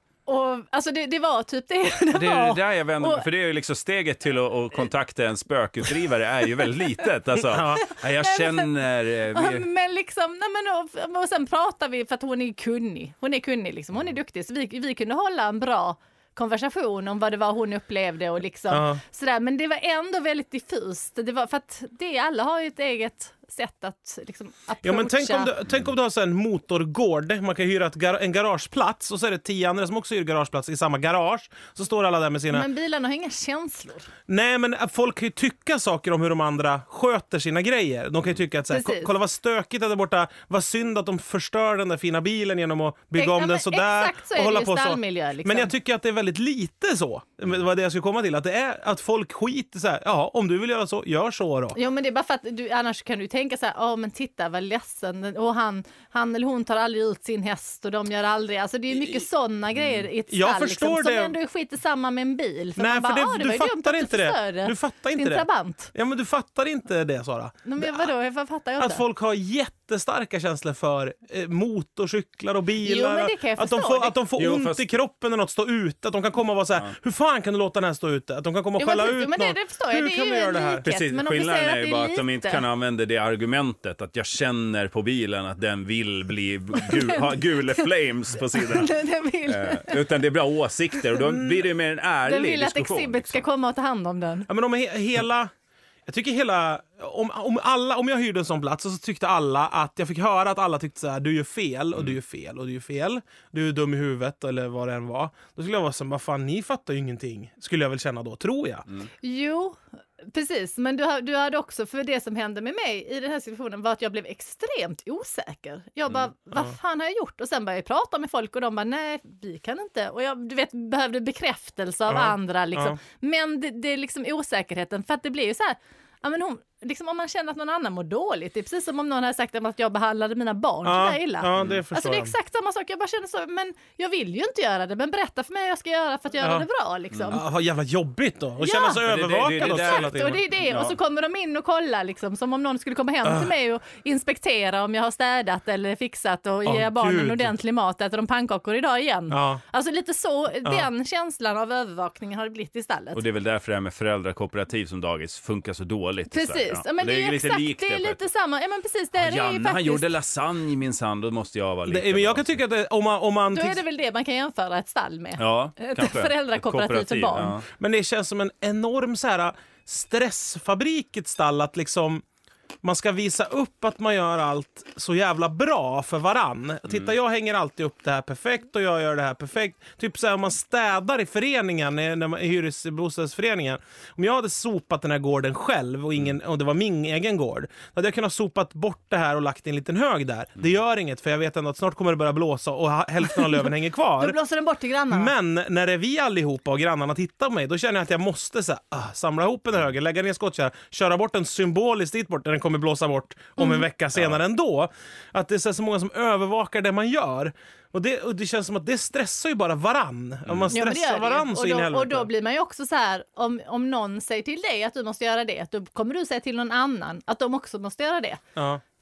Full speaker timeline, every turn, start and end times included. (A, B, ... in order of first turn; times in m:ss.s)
0:00.3-0:03.2 A
0:02.1-0:09.7 B
0:07.5-0:07.8 C
0:07.8-0:08.7 A
0:09.3-0:25.5 A
0:18.7-0:19.0 C
0:24.8-0:32.7 C
0:32.5-0:34.1 A
0:34.3-0:51.8 C
0:38.7-0:39.1 A
0:43.2-0:45.7 A
0:51.7-1:05.9 A
1:00.3-1:01.4 C
1:02.8-1:08.1 C
1:07.7-1:09.0 A
1:08.8-1:20.9 C
1:12.8-1:14.2 A
1:14.4-1:14.9 B
1:18.8-1:22.6 A
1:20.8-1:33.4 B
1:26.8-1:27.8 A
1:28.5-1:30.0 A
1:32.2-1:34.5 A
1:34.5-1:35.5 C
1:36.1-1:48.9 C
1:49.2-2:17.4 A
2:02.1-2:03.0 C
2:10.8-2:12.3 C
2:11.6-2:11.8 B
2:17.3-2:20.4 C
2:18.6-2:19.0 A
2:19.0-2:21.0 B
2:19.6-2:33.2 A
2:26.6-2:27.5 C
2:29.3-2:29.6 C
2:33.2-2:38.2 B
2:36.3-2:40.1 A
2:39.2-2:42.6 B
2:41.9-2:43.8 C
2:43.5-2:47.6 A
2:45.4-2:47.7 B
2:47.8-2:52.2 C
2:52.8-3:14.4 C
3:14.2-3:15.3 A
3:15.1-3:32.3 C
3:23.6-3:23.8 A
3:30.5-3:30.7 B
3:30.7-3:38.4 A
3:38.6-3:38.8 C